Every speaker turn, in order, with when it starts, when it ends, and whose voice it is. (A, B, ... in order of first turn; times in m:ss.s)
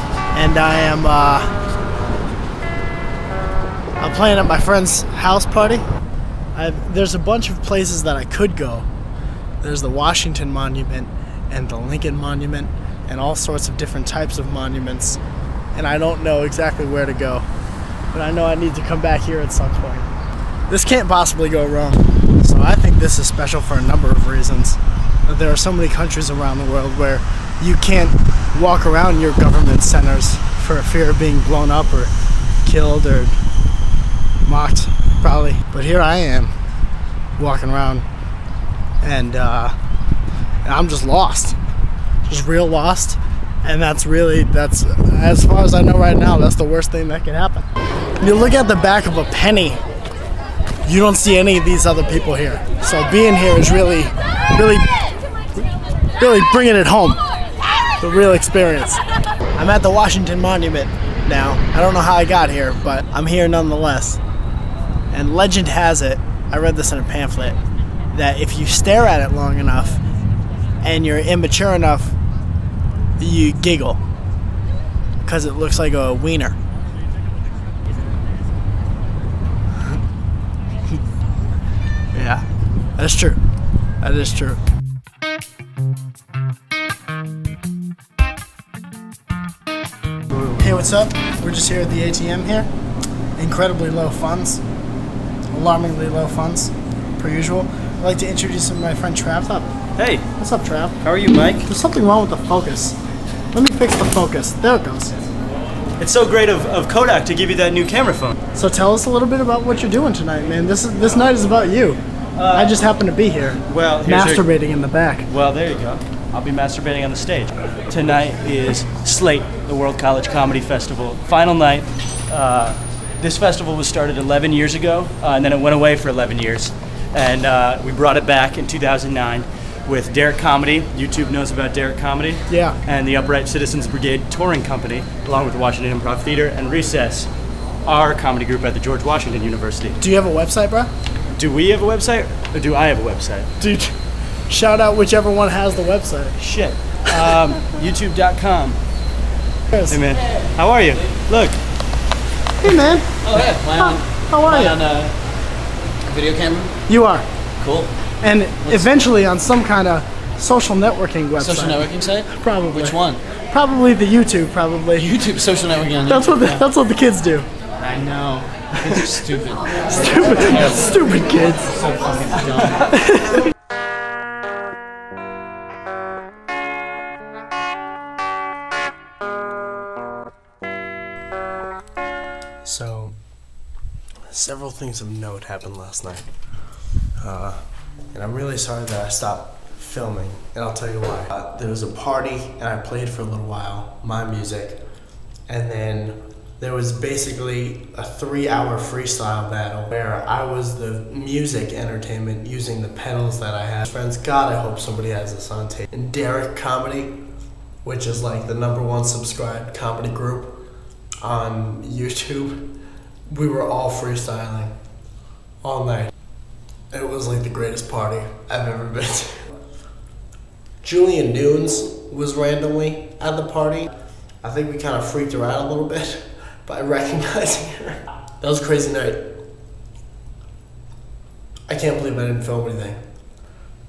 0:00.3-0:01.5 A
0:04.0-0:05.9 A
0:06.5-0:08.9 A
0:09.6-0:15.2 A
0:15.7-0:17.5 A
0:18.1-0:20.1 A
0:20.7-0:32.1 A
0:32.6-0:33.4 A
0:34.4-0:36.5 A
0:37.4-0:38.1 A
0:39.0-0:39.8 A
0:40.6-0:41.6 A
0:42.3-0:47.7 A
0:48.2-0:49.8 A
0:50.8-0:55.0 A
0:56.2-0:57.2 A
0:58.0-0:59.0 A
0:59.6-1:04.2 A
1:05.1-1:07.6 A
1:08.1-1:10.0 A
1:10.8-1:12.2 A
1:13.2-1:14.0 A
1:15.2-1:16.6 A
1:22.1-1:23.4 A
1:24.0-1:24.6 A
1:30.5-1:32.7 A
1:33.4-1:34.6 A
1:35.5-1:39.7 A
1:40.0-1:40.3 B
1:40.4-1:41.0 A
1:41.0-1:41.7 B
1:41.7-1:43.0 A
1:43.5-1:45.2 A
1:46.0-1:48.4 B
1:48.5-1:52.0 A
1:52.4-1:52.8 B
1:52.5-1:55.3 A
1:53.7-1:54.5 B
1:55.3-2:17.3 B
2:12.5-2:12.8 A
2:17.8-2:20.0 B
2:20.0-2:20.9 A
2:21.4-2:23.5 B
2:23.6-2:24.0 A
2:24.5-2:26.4 A
2:26.4-2:28.8 B
2:29.7-2:30.0 A
2:29.9-2:31.6 B
2:32.6-2:34.9 A
2:33.2-2:35.2 C
2:36.1-2:36.8 C
2:36.9-2:37.3 A
2:37.6-2:37.9 C
2:38.2-2:45.2 A
2:41.4-2:43.2 C
2:45.0-2:46.6 C
2:46.1-2:47.5 A
2:47.8-2:51.1 C
2:49.8-2:52.0 A
2:51.8-2:52.9 C
2:52.7-2:53.5 A
3:02.6-3:03.2 A
3:04.3-3:06.3 A
3:07.2-3:14.8 A
3:15.5-3:27.2 A
3:27.8-3:30.6 A
3:31.2-3:32.7 A
3:33.3-3:34.7 A
3:35.6-3:36.1 A
3:36.9-3:39.5 A
3:40.8-3:49.3 A
3:51.7-3:53.0 A